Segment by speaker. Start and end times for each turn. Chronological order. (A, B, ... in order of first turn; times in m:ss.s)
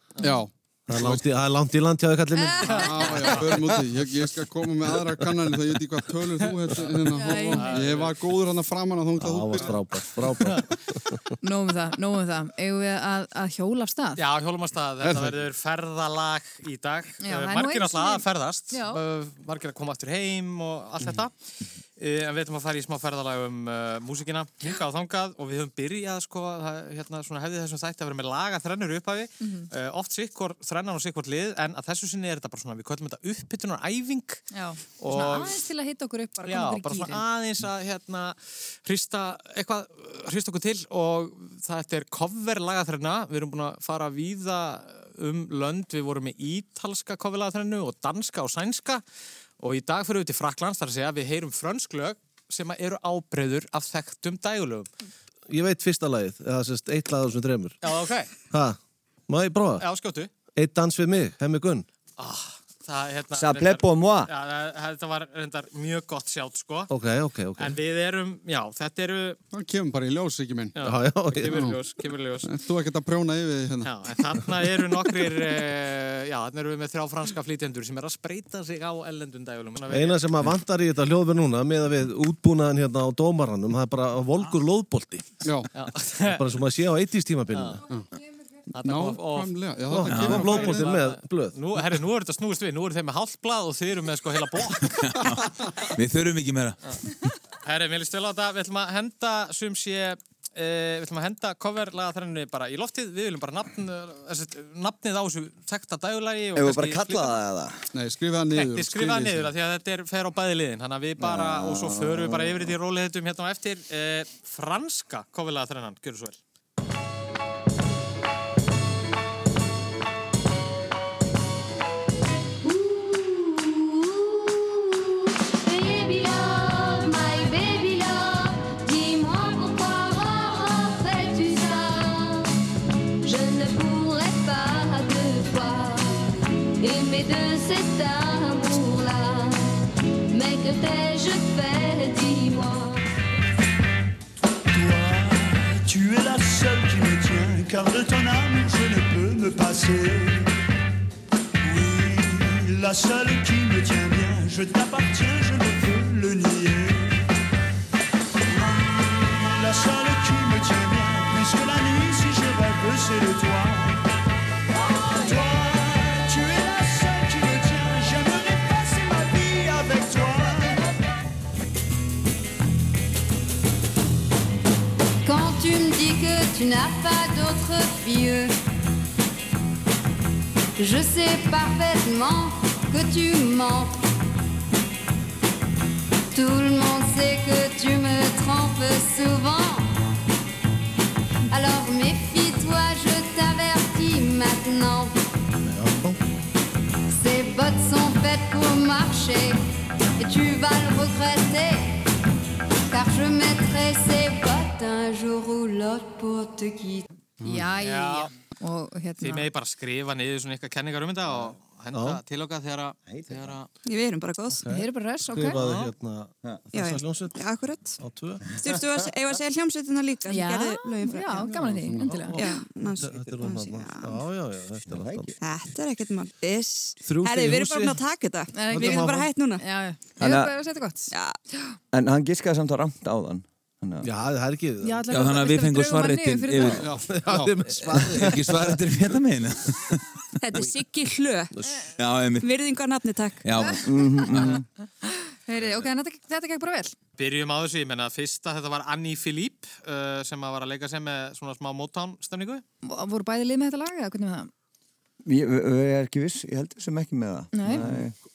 0:00.2-0:01.2 A
0:00.9-0:02.8 B
0:02.4-0:03.1 C
0:02.6-0:03.6 D
0:02.7-0:09.9 A
0:06.5-0:08.2 D
0:07.2-0:07.8 C
0:09.2-0:10.8 B
0:10.4-0:10.7 D
0:11.4-0:14.2 C
0:14.2-0:21.3 D
0:15.0-0:15.4 A
0:17.2-0:19.0 C
0:22.0-0:34.5 D
0:29.4-0:29.7 C
0:34.5-0:37.2 C
0:35.0-0:35.6 D
0:36.4-0:49.0 D
0:49.6-0:54.9 D
0:55.5-0:57.8 B
0:57.8-0:58.3 D
0:58.5-0:59.9 B
0:59.8-1:00.3 D
1:00.6-1:01.9 B
1:02.2-1:06.9 D
1:03.3-1:04.3 E
1:06.9-1:07.8 B
1:07.6-1:09.4 D
1:09.5-1:10.8 A
1:10.8-1:12.5 D
1:10.8-1:11.6 B
1:11.4-1:11.8 A
1:12.4-1:13.9 A
1:13.8-1:20.2 D
1:19.9-1:25.3 B
1:25.4-1:25.7 A
1:25.7-1:26.4 D
1:26.3-1:27.8 B
1:27.5-1:27.8 D
1:28.7-1:35.5 D
1:28.8-1:31.0 A
1:29.9-1:31.8 B
1:30.1-1:30.7 F
1:34.9-1:36.8 F
1:37.6-1:47.4 D
1:46.6-1:47.8 E
1:47.9-1:49.5 A
1:48.5-1:56.4 D
1:51.2-1:52.8 E
2:02.6-2:12.5 G
2:13.2-2:19.7 G
2:20.3-2:23.1 G
2:24.7-2:30.5 H
2:31.6-2:37.3 H
2:38.5-2:44.1 H
2:45.1-2:50.8 H
2:55.2-2:58.6 G
3:00.8-3:04.0 G
3:06.3-3:09.9 G
3:11.5-3:15.1 G
3:15.6-3:16.2 B
3:17.1-3:19.6 G
3:20.2-3:22.0 G
3:22.9-3:27.1 G
3:27.4-3:27.7 B
3:27.4-3:29.5 C
3:27.8-3:28.3 D
3:29.2-3:33.7 D
3:31.9-3:32.2 B
3:33.1-3:33.6 E
3:33.8-3:34.6 I
3:34.6-3:37.4 B
3:34.7-3:35.6 C
3:35.6-3:35.9 D
3:36.7-3:41.6 I
3:38.0-3:38.4 B
3:38.5-3:39.0 E
3:40.3-3:42.4 C
3:41.5-3:45.3 B
3:41.8-3:42.1 A
3:42.3-3:44.2 I
3:43.4-3:43.7 C
3:44.9-3:45.4 E
3:45.4-3:49.6 I
3:47.0-3:48.0 B
3:48.5-3:51.8 C
3:48.7-3:49.1 B
3:50.2-3:50.5 E
3:51.9-3:54.1 E
3:54.0-3:55.0 B
3:54.8-3:56.9 C
3:55.1-3:57.0 F
3:56.8-3:57.7 A
3:56.9-3:58.8 B
3:58.0-4:00.2 F
4:00.4-4:01.5 I
4:02.0-4:02.5 F
4:02.4-4:03.4 I
4:03.4-4:04.6 F
4:03.8-4:04.6 E
4:04.4-4:07.0 C
4:07.2-4:12.6 D
4:12.8-4:14.5 C
4:15.2-4:18.2 E
4:17.5-4:17.9 C
4:17.7-4:18.1 B